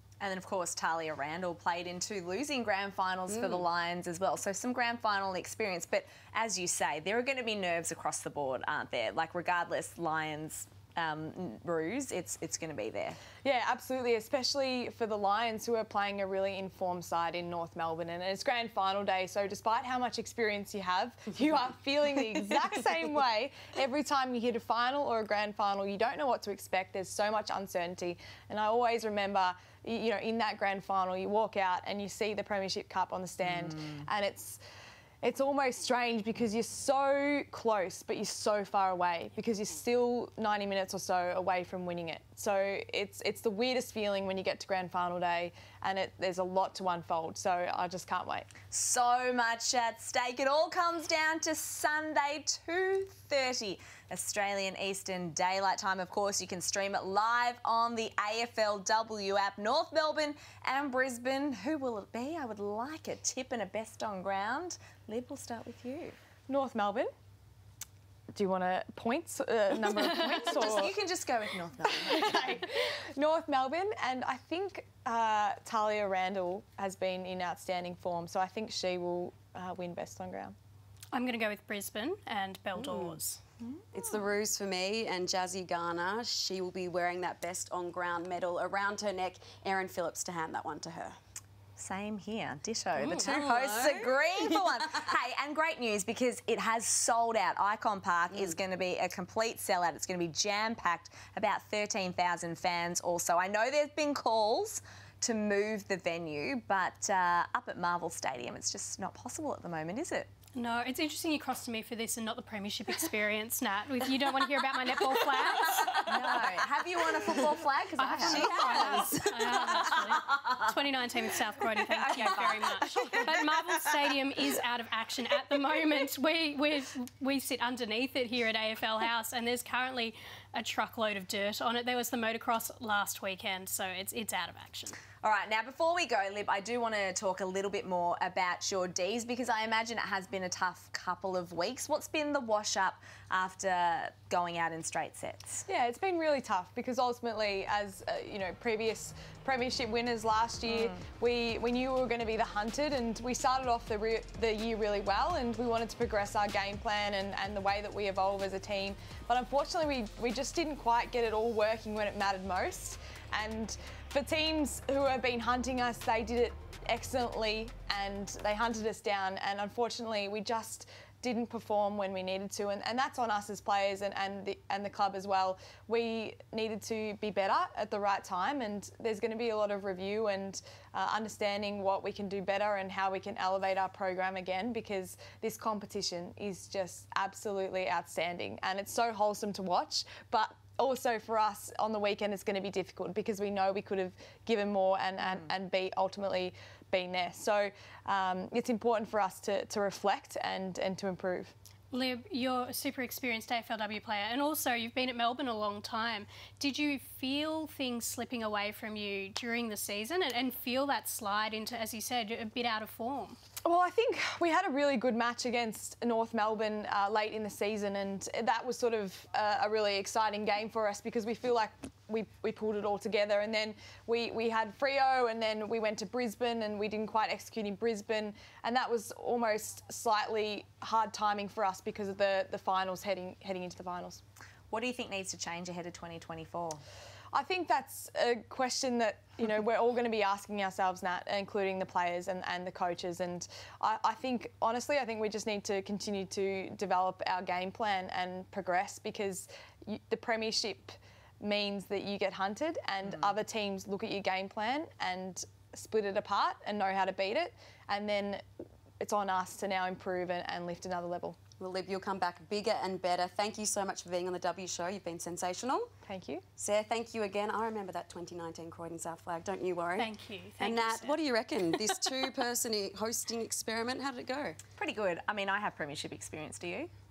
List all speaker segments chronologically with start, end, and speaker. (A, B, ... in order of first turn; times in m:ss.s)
0:00.2-0:13.2 A
0:03.3-0:03.6 B
0:13.4-0:34.6 C
0:33.4-0:34.0 A
0:35.2-0:48.5 C
0:48.7-1:06.2 A
1:06.5-1:07.1 C
1:08.3-1:10.9 C
1:10.0-1:12.6 A
1:11.9-1:20.5 C
1:21.1-1:23.4 D
1:22.8-1:23.2 B
1:23.6-1:24.1 A
1:23.9-1:31.2 B
1:31.8-1:50.3 A
1:33.0-1:34.7 B
1:50.6-1:56.1 D
1:55.8-1:56.3 B
1:56.0-2:00.5 A
1:58.0-2:15.0 D
1:58.2-1:59.8 B
2:02.1-2:03.1 A
2:15.2-2:25.6 A
2:25.7-3:21.5 C
2:30.7-2:31.0 A
3:21.9-3:33.4 D
3:33.6-3:54.2 C
3:54.7-3:56.8 A
3:57.3-4:18.4 C
4:19.0-4:21.4 C
4:21.6-4:25.9 B
4:26.0-4:26.4 C
4:26.6-4:34.6 B
4:30.0-4:31.2 D
4:34.8-4:36.9 A